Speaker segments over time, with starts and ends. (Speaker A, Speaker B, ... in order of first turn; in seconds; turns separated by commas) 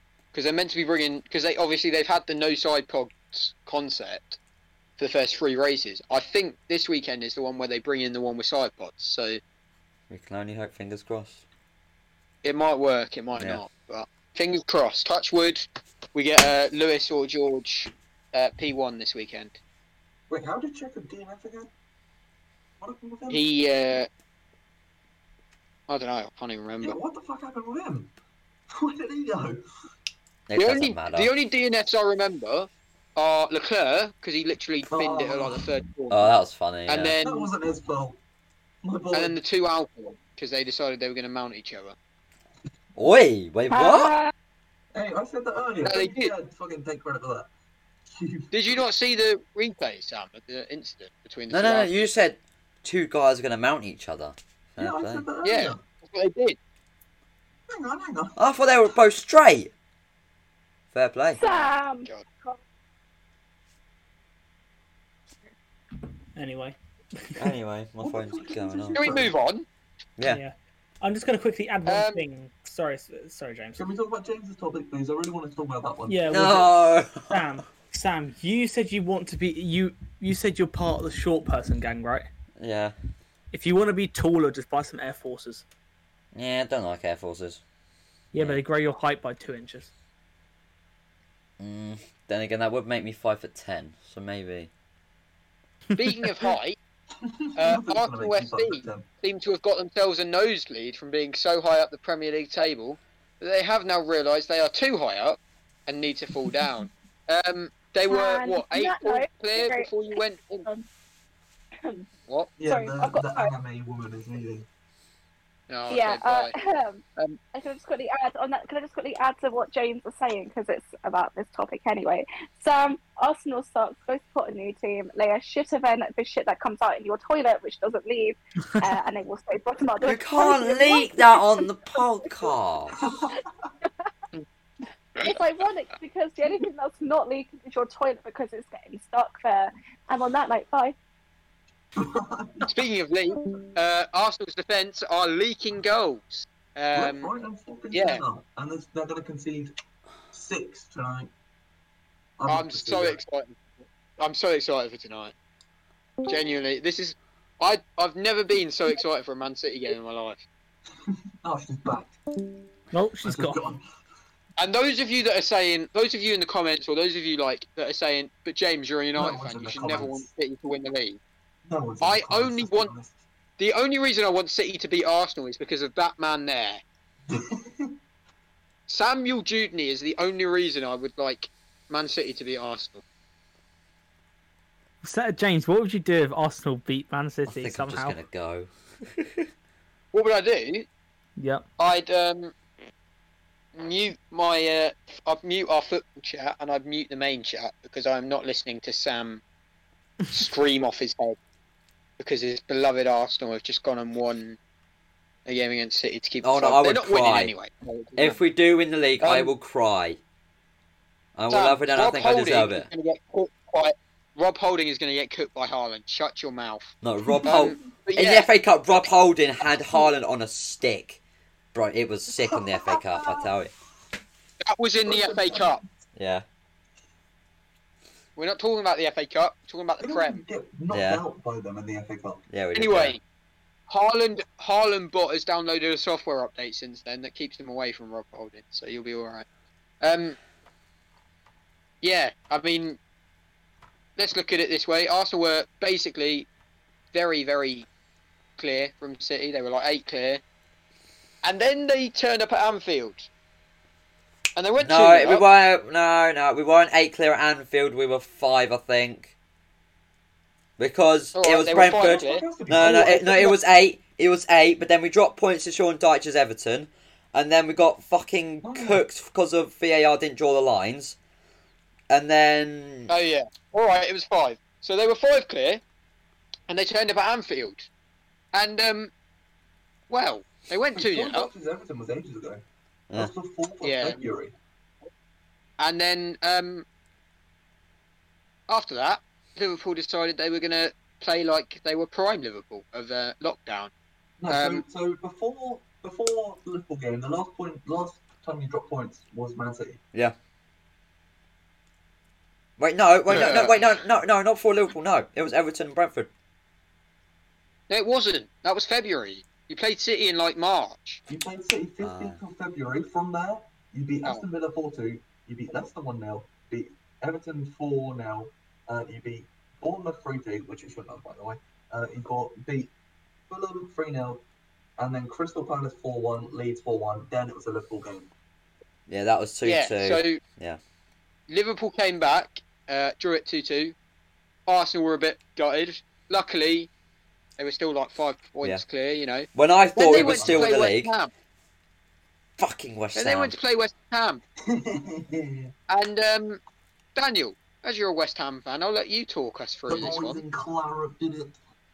Speaker A: 0.3-4.4, Speaker A: 5.0-9.4, Speaker B: 10.1-11.4, Speaker A: 12.4-19.6, Speaker B: 13.4-13.6, Speaker C: 20.3-21.7, Speaker C: 22.8-23.4, Speaker A: 23.3-24.1, Speaker A: 25.9-27.0, Speaker C: 26.8-28.1, Speaker C: 28.7-29.6, Speaker B: 30.5-31.3, Speaker A: 30.6-36.3, Speaker C: 34.9-35.7, Speaker B: 36.1-37.2, Speaker A: 36.9-37.5, Speaker C: 37.2-38.2, Speaker C: 38.8-39.4, Speaker A: 39.1-42.0, Speaker B: 43.0-44.1, Speaker D: 43.7-44.3, Speaker C: 44.9-47.5, Speaker A: 45.8-46.3, Speaker C: 48.1-48.8, Speaker A: 48.5-51.9, Speaker B: 51.5-55.3, Speaker C: 54.8-55.8, Speaker A: 55.4-56.6, Speaker C: 57.7-58.4, Speaker B: 58.4-59.7, Speaker B: 60.9-61.4, Speaker D: 61.3-62.6, Speaker A: 61.4-62.2, Speaker E: 66.4-67.5, Speaker B: 67.4-69.2, Speaker C: 68.0-69.3, Speaker A: 68.9-69.7, Speaker E: 70.2-73.8, Speaker A: 71.9-72.2, Speaker C: 73.8-76.7, Speaker E: 76.1-76.7, Speaker B: 76.3-77.4, Speaker E: 77.2-82.3, Speaker B: 82.6-82.9, Speaker E: 83.5-85.6, Speaker B: 86.3-87.6, Speaker E: 88.3-89.9, Speaker B: 88.4-88.6, Speaker B: 91.6-94.7, Speaker E: 95.9-96.5, Speaker A: 96.0-96.8, Speaker C: 97.2-99.1, Speaker A: 97.6-110.7, Speaker D: 108.1-109.9, Speaker C: 112.6-114.7, Speaker D: 112.6-113.5, Speaker A: 115.7-116.5, Speaker D: 115.9-132.5, Speaker B: 130.0-133.0, Speaker C: 133.0-133.4, Speaker D: 135.2-140.9, Speaker C: 141.9-142.8, Speaker A: 142.6-147.3, Speaker C: 146.9-149.7, Speaker A: 147.9-148.2, Speaker C: 150.3-151.3, Speaker C: 152.4-153.2, Speaker A: 152.5-155.3, Speaker A: 156.2-160.4, Speaker C: 161.1-162.2, Speaker E: 162.9-163.6, Speaker C: 163.2-163.8, Speaker A: 164.6-171.2, Speaker C: 169.1-170.3, Speaker C: 171.7-173.2, Speaker A: 172.0-172.9, Speaker A: 173.6-176.8, Speaker C: 177.3-177.9, Speaker A: 178.9-183.0, Speaker E: 185.0-188.2, Speaker B: 187.4-188.7, Speaker A: 190.1-190.9, Speaker E: 191.4-191.6, Speaker A: 191.8-192.5, Speaker A: 193.7-199.4, Speaker A: 200.3-201.4, Speaker A: 202.2-204.6, Speaker A: 205.4-208.4, Speaker B: 206.4-207.5, Speaker B: 208.2-210.2, Speaker A: 209.2-209.5, Speaker B: 211.4-212.9, Speaker A: 211.5-218.5, Speaker B: 217.0-221.2, Speaker C: 217.2-217.6, Speaker B: 221.7-223.7, Speaker C: 222.4-223.5, Speaker A: 224.6-225.8, Speaker C: 225.1-225.9, Speaker B: 226.2-226.4, Speaker A: 228.4-230.4, Speaker C: 230.0-232.4, Speaker B: 230.9-231.2, Speaker B: 232.5-233.2, Speaker A: 232.7-233.2, Speaker A: 233.9-239.4, Speaker A: 240.0-240.4, Speaker A: 242.0-243.0, Speaker A: 244.2-246.5, Speaker A: 247.1-247.9, Speaker A: 248.6-250.4, Speaker A: 251.4-253.3, Speaker A: 254.6-255.4, Speaker B: 254.8-259.3, Speaker B: 260.8-271.2, Speaker A: 261.4-263.6, Speaker C: 261.7-263.3, Speaker C: 268.6-269.0, Speaker B: 272.1-273.1, Speaker A: 273.1-275.8, Speaker A: 276.7-277.9, Speaker A: 278.5-279.1, Speaker A: 280.1-281.5, Speaker C: 280.9-282.6, Speaker C: 283.1-284.6, Speaker A: 283.8-284.2, Speaker A: 285.8-286.9, Speaker A: 288.7-293.9, Speaker C: 294.4-300.0, Speaker A: 294.5-294.8, Speaker B: 302.8-306.3, Speaker A: 303.3-303.8, Speaker A: 307.9-311.2, Speaker C: 311.3-322.9, Speaker B: 312.0-312.4, Speaker C: 323.5-324.4, Speaker C: 325.0-328.3, Speaker B: 329.1-330.8, Speaker A: 329.6-330.4, Speaker A: 331.5-333.9, Speaker A: 334.7-336.9, Speaker A: 337.6-341.3, Speaker B: 339.6-341.1, Speaker C: 340.1-340.8, Speaker B: 342.6-343.6, Speaker A: 343.1-344.4, Speaker C: 344.6-345.7, Speaker A: 345.9-346.6, Speaker A: 347.1-350.4, Speaker C: 349.9-351.6